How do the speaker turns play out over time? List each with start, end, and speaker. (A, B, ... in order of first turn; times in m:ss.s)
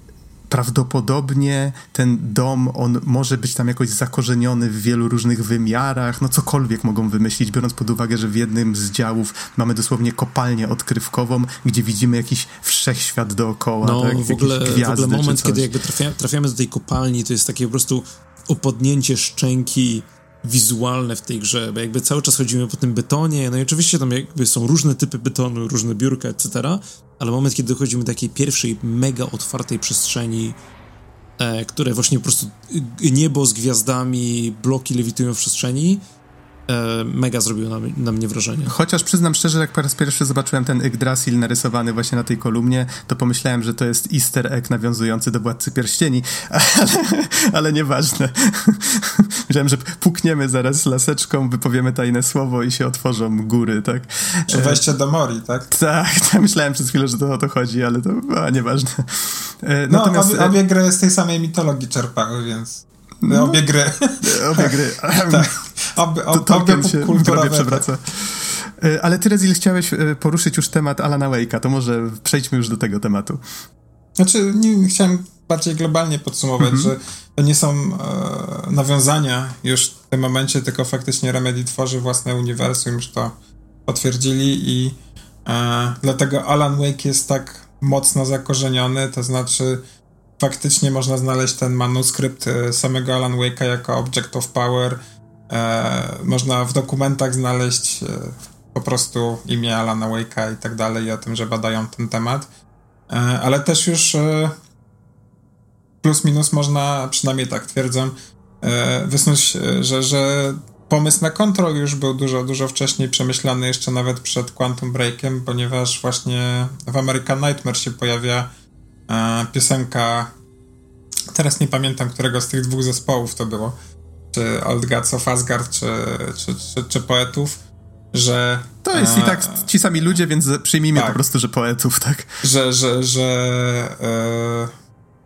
0:00.5-0:15.7 A
0:13.8-0:30.6 B
0:31.4-0:36.0 B
0:36.7-0:38.7 B
0:38.7-0:54.8 A
0:54.5-0:55.7 C
0:55.7-1:00.6 A
0:59.9-1:07.9 C
1:03.2-1:03.6 A
1:04.2-1:05.5 A
1:06.3-1:13.4 A
1:14.2-1:23.4 C
1:16.6-1:16.9 A
1:23.9-1:29.8 C
1:30.4-1:42.5 C
1:43.1-1:44.6 C
1:46.0-1:58.5 C
1:59.1-2:00.3 C
2:01.3-2:03.8 C
2:04.3-2:07.6 C
2:08.1-2:09.7 C
2:08.8-2:12.4 A
2:11.0-2:11.2 C
2:12.4-2:14.7 C